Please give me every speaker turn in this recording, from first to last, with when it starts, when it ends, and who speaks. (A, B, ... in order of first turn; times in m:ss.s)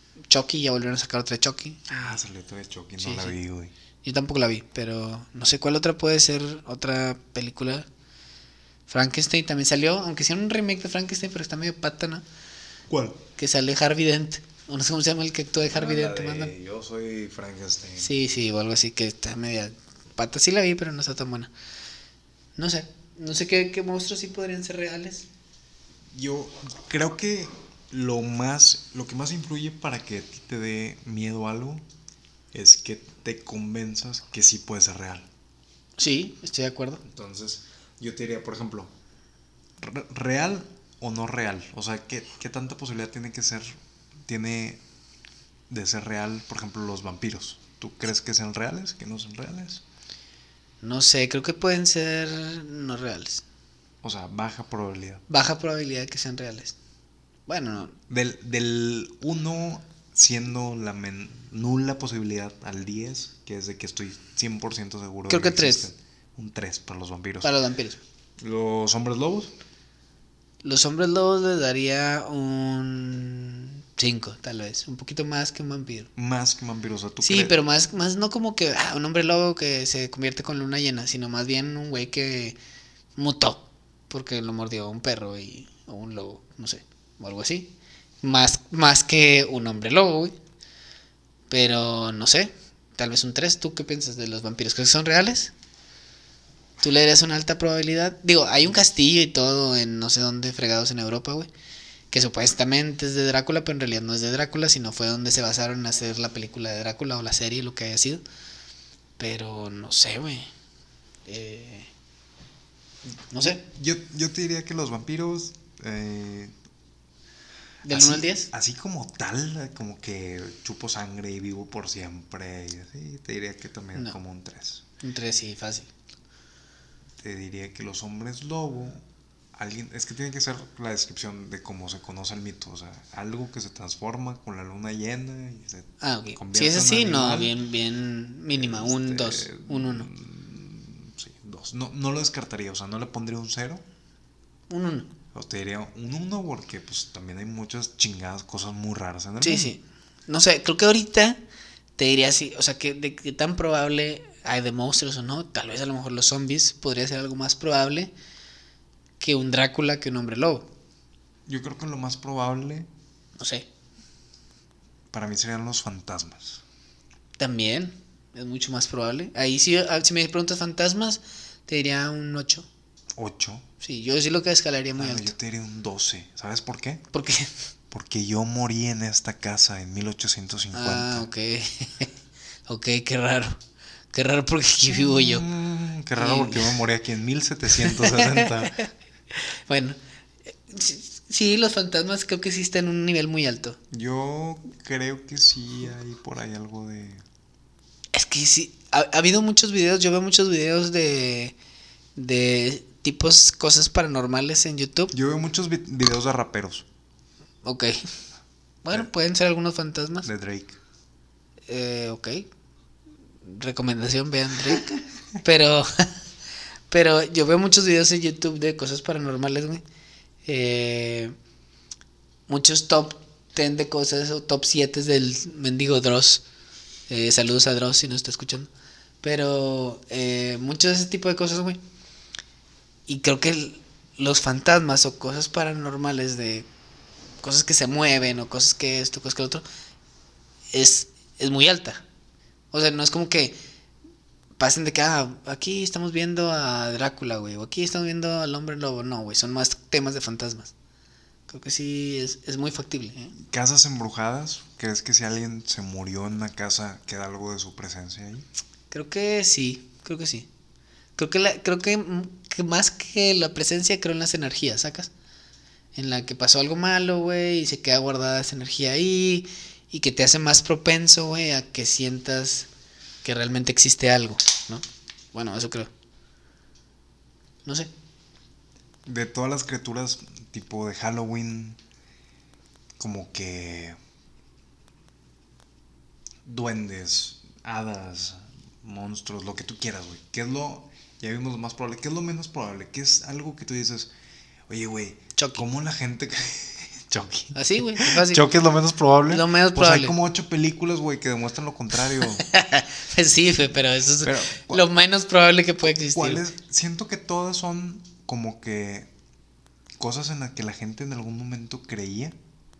0:00.3-0:02.2 A
0:01.9-0:03.7 B
0:03.0-0:03.3 A
0:04.0-0:07.8 A
0:08.9-0:12.2 A
0:12.9-0:13.2 B
0:13.4-0:16.5 A
0:15.7-0:18.1 B
0:18.0-0:21.5 A
0:22.6-0:25.3 A
0:26.1-0:31.8 B
0:32.5-0:35.3 B
0:36.0-0:37.0 A
0:37.0-0:38.9 B
0:39.8-0:44.8 B
0:45.7-0:49.8 B
0:50.8-0:53.4 A
0:54.0-0:55.2 B
0:55.3-0:56.7 A
0:57.5-0:57.9 A
0:58.1-1:07.5 B
1:05.3-1:05.9 A
1:07.4-1:08.0 A
1:08.4-1:09.5 B
1:10.6-1:16.1 A
1:16.2-1:17.6 B
1:17.2-1:22.6 A
1:23.2-1:30.3 A
1:31.5-1:35.5 A
1:36.8-1:41.5 A
1:42.1-1:48.2 A
1:49.2-1:50.5 A
1:51.3-1:51.9 A
1:53.3-1:53.6 A
1:53.4-1:56.5 B
1:57.8-1:58.5 A
1:57.9-2:04.8 B
2:05.0-2:05.9 A
2:07.2-2:09.0 B
2:09.5-2:17.5 B
2:16.0-2:20.1 A
2:18.5-2:23.8 B
2:24.7-2:25.1 A
2:25.3-2:29.7 B
2:29.4-2:31.4 A
2:32.0-2:38.1 A
2:39.2-2:40.7 A
2:41.5-2:42.9 B
2:43.4-2:43.6 A
2:45.1-2:46.6 B
2:47.4-2:52.6 A
2:53.1-2:53.6 B
2:53.8-2:55.3 A
2:55.0-2:57.0 B
2:57.1-2:57.5 A
2:57.9-3:01.3 B
3:00.7-3:02.1 A
3:02.7-3:03.6 A
3:04.1-3:05.4 A
3:04.9-3:08.7 B
3:06.2-3:06.7 A
3:07.8-3:10.0 A
3:10.5-3:13.8 A
3:13.9-3:17.2 B
3:18.1-3:21.5 A
3:22.2-3:25.1 A
3:25.1-3:26.8 B
3:27.6-3:28.0 A
3:28.8-3:30.3 A
3:30.2-3:30.8 B
3:31.7-3:32.5 A
3:33.4-3:36.1 A
3:36.9-3:39.8 A
3:40.4-3:41.3 A
3:42.5-3:46.4 A
3:47.1-3:48.7 A
3:49.2-3:51.8 A
3:53.1-3:56.7 A
3:57.4-3:59.6 A
4:00.7-4:02.0 A
4:02.7-4:03.5 A
4:04.6-4:10.7 A
4:11.5-4:13.4 A
4:13.4-4:18.4 B
4:18.9-4:20.5 A
4:21.2-4:25.1 A
4:25.9-4:32.7 A
4:33.2-4:35.9 A
4:37.6-4:37.9 A
4:39.0-4:41.8 B
4:43.0-4:44.0 B
4:46.4-4:54.1 B
4:54.7-5:02.4 B
4:55.4-4:55.6 A
4:57.5-4:58.4 A
4:59.3-5:00.1 A
5:02.3-5:06.4 A
5:04.2-5:04.9 B
5:05.8-5:09.1 B
5:10.0-5:12.4 B